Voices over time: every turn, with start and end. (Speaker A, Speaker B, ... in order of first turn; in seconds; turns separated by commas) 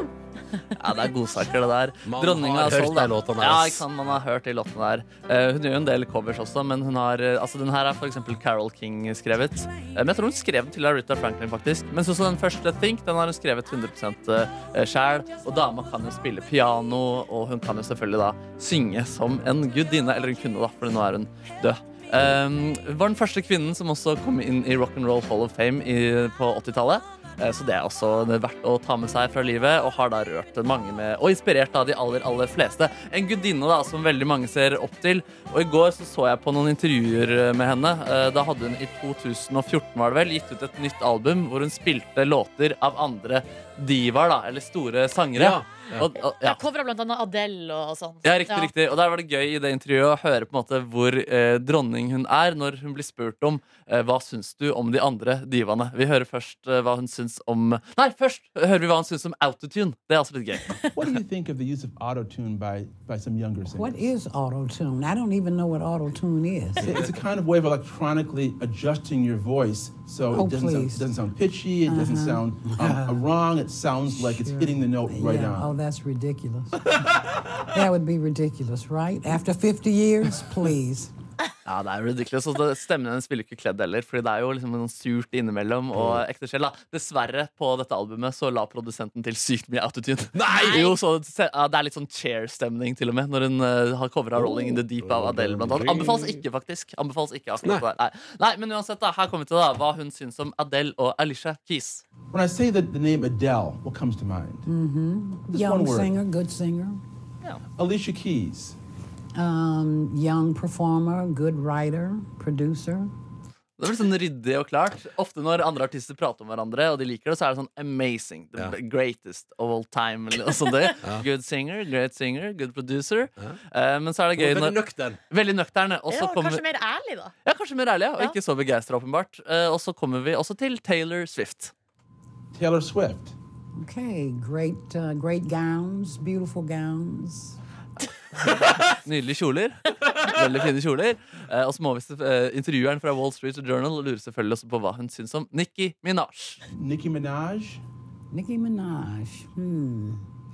Speaker A: 0.8-46.6, Speaker B: 2.0-3.9, Speaker B: 45.4-46.1, Speaker C: 46.4-48.7, Speaker A: 48.2-60.7, Speaker D: 60.9-64.1, Speaker E: 63.7-67.0, Speaker D: 66.8-75.7, Speaker E: 70.3-71.2, Speaker E: 71.8-73.3, Speaker E: 74.1-76.9, Speaker E: 77.7-81.1, Speaker A: 81.7-102.0, Speaker B: 85.9-86.2, Speaker B: 90.3-90.9, Speaker C: 90.7-90.9, Speaker B: 94.3-96.4, Speaker D: 102.3-104.7, Speaker E: 104.7-107.0, Speaker D: 105.5-106.1, Speaker D: 107.8-108.8, Speaker E: 109.3-113.1, Speaker A: 113.8-124.8, Speaker B: 124.4-125.2, Speaker A: 125.3-126.6, Speaker C: 126.1-127.3, Speaker A: 127.5-131.7, Speaker D: 132.5-133.3, Speaker E: 133.8-137.6, Speaker A: 138.5-146.6, Speaker D: 146.7-147.8, Speaker E: 148.3-150.2